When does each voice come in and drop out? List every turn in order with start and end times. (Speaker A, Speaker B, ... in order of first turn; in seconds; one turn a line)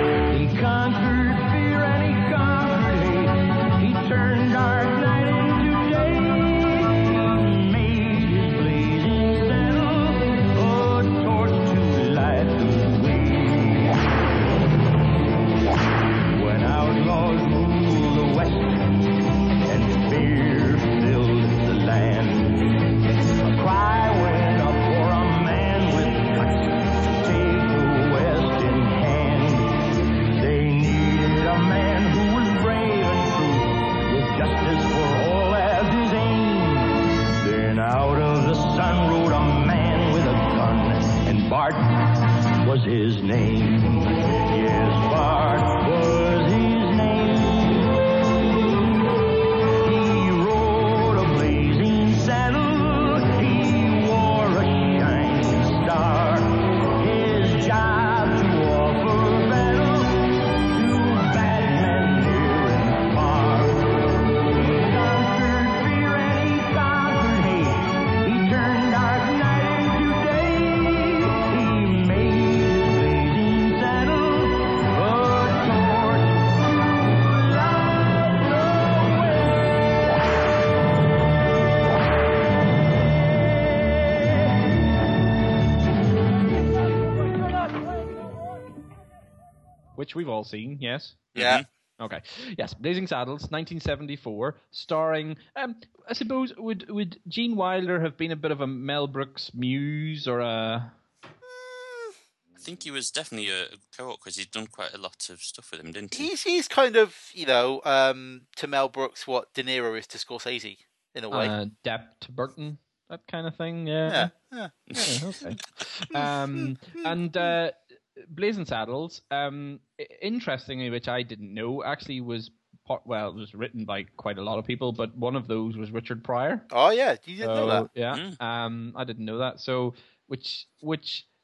Speaker A: 0.3-14.1
Speaker A: 16.3-19.0
Speaker A: 19.6-22.7
Speaker A: 23.5-49.0
Speaker A: 49.8-79.8
Speaker B: 90.0-91.3
Speaker C: 91.3-91.7
Speaker D: 91.3-91.7
Speaker B: 92.0-100.9
Speaker C: 102.6-106.3
Speaker D: 106.1-111.5
Speaker B: 111.3-114.3
Speaker D: 114.1-115.1
Speaker B: 115.0-126.7
Speaker D: 116.1-117.2
Speaker D: 126.7-127.9
Speaker B: 127.4-131.3
Speaker C: 128.1-128.4